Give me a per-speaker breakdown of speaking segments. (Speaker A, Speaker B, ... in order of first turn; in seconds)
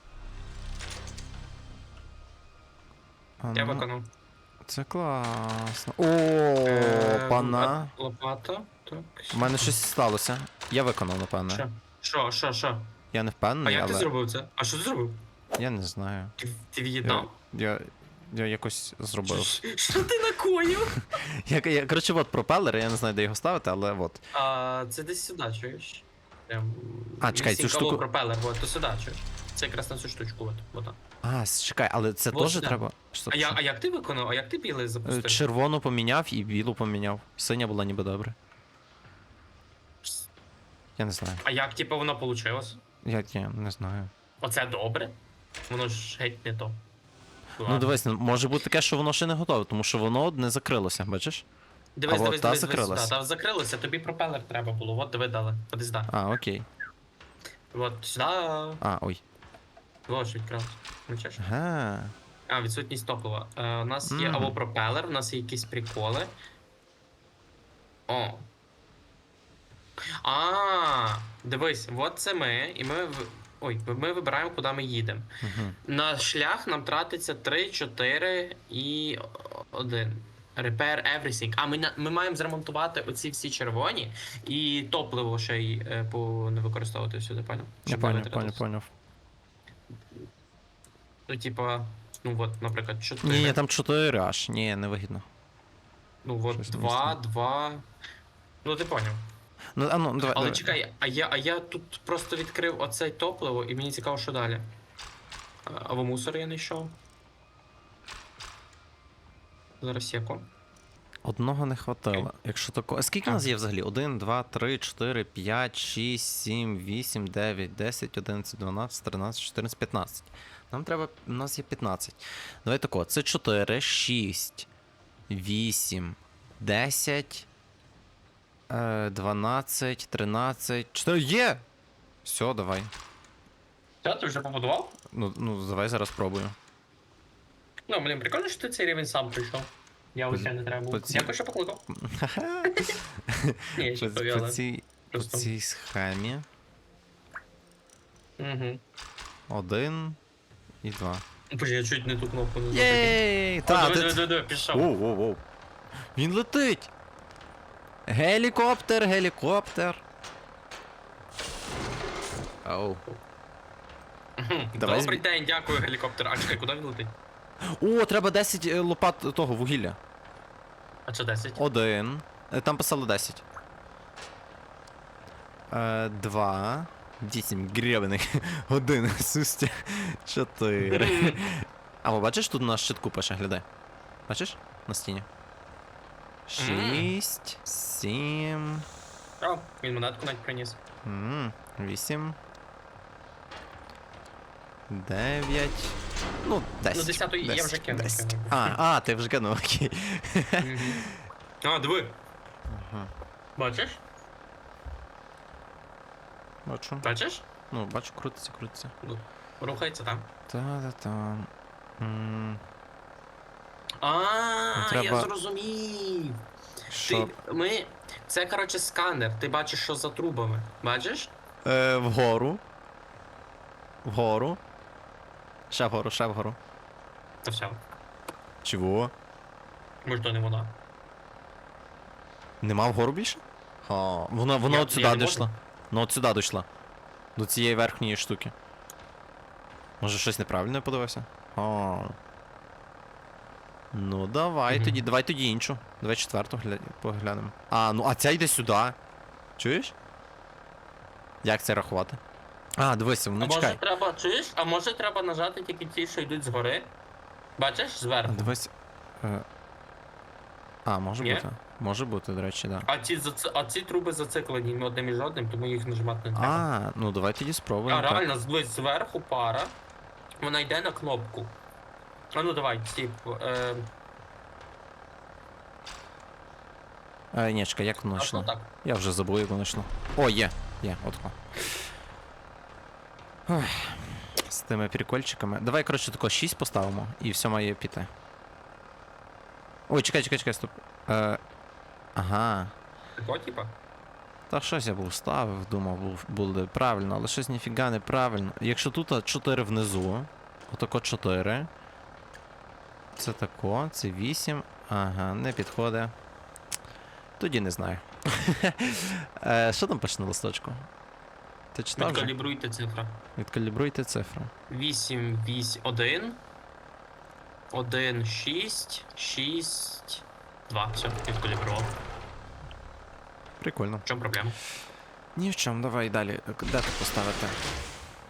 Speaker A: 3.4-3.9, 4.6-7.9, 9.3-11.6, 13.1-14.1, 15.6-16.3, 17.0-19.6, 21.0-24.2, 27.2-28.0, 31.2-33.6, 35.0-38.4, 41.0-41.4, 43.0-44.1, 47.6-51.4, 52.1-53.1, 56.1-56.6, 58.8-59.2, 61.4-62.1, 64.0-64.6, 75.4-75.8, 87.8-88.9, 93.2-95.2, 96.5-97.2, 99.8-100.8, 111.2-124.7, 125.3-127.5, 128.7-131.6, 132.2-132.9, 135.1-136.6, 140.3-141.3, 141.9-146.4, 149.5-150.2, 150.8-151.2, 152.7-155.4, 156.1-156.9, 158.1-160.0, 162.6-163.0, 164.8-165.2, 167.6-170.0, 171.6-173.4, 175.7-183.7, 184.3-185.3, 186.5-188.8, 191.0-192.4, 194.9-201.1, 202.7-203.1, 206.6-207.1, 207.7-208.9, 210.5-212.6, 214.7-215.3, 216.9-217.3, 221.6-222.6, 224.0-224.6, 225.7-226.6, 228.6-229.1, 232.6-236.7, 237.3-238.5, 240.0-242.2, 243.9-248.9, 249.6-249.9, 251.4-252.2, 252.8-253.8, 258.2-259.4, 260.9-262.9, 266.3-268.2, 277.3-281.4, 283.5-288.1, 289.9-291.4, 292.1-292.7, 294.5-301.7, 303.1-306.1, 307.4-310.9, 311.7-312.3, 313.4-314.5, 323.6-324.0, 325.4-327.6
Speaker B: 3.5-4.1, 6.7-9.7, 11.5-12.9, 13.6-15.2, 16.4-17.3, 19.2-21.1, 24.3-31.0, 32.3-35.5, 41.4-42.8, 44.4-45.2, 45.7-46.8, 47.5-47.9, 52.0-56.1, 57.7-58.8, 60.1-61.4, 62.5-66.3, 68.1-68.5, 70.2-75.3, 75.8-88.6, 91.3-93.6, 96.2-97.8, 98.6-99.3, 100.2-104.7, 105.7-107.0, 109.8-110.5, 134.0-135.0, 137.9-141.8, 142.7-143.0, 143.8-145.5, 148.4-148.8, 151.5-154.9, 164.4-167.1, 171.1-171.6, 180.8-181.4, 186.6-187.1, 189.4-190.8, 196.9-198.8, 200.6-201.1, 201.6-202.2, 203.6-204.0, 207.0-207.4, 209.0-210.3, 214.0-216.4, 216.9-221.3, 227.4-227.8, 230.0-230.7, 234.6-235.5, 244.7-245.0, 253.4-256.9, 257.6-258.5, 261.2-261.4, 262.9-266.7, 267.9-269.8, 270.4-271.5, 272.3-273.9, 278.1-278.7, 293.1-293.7, 311.9-313.2, 314.7-316.4, 317.7-321.9, 324.1-324.6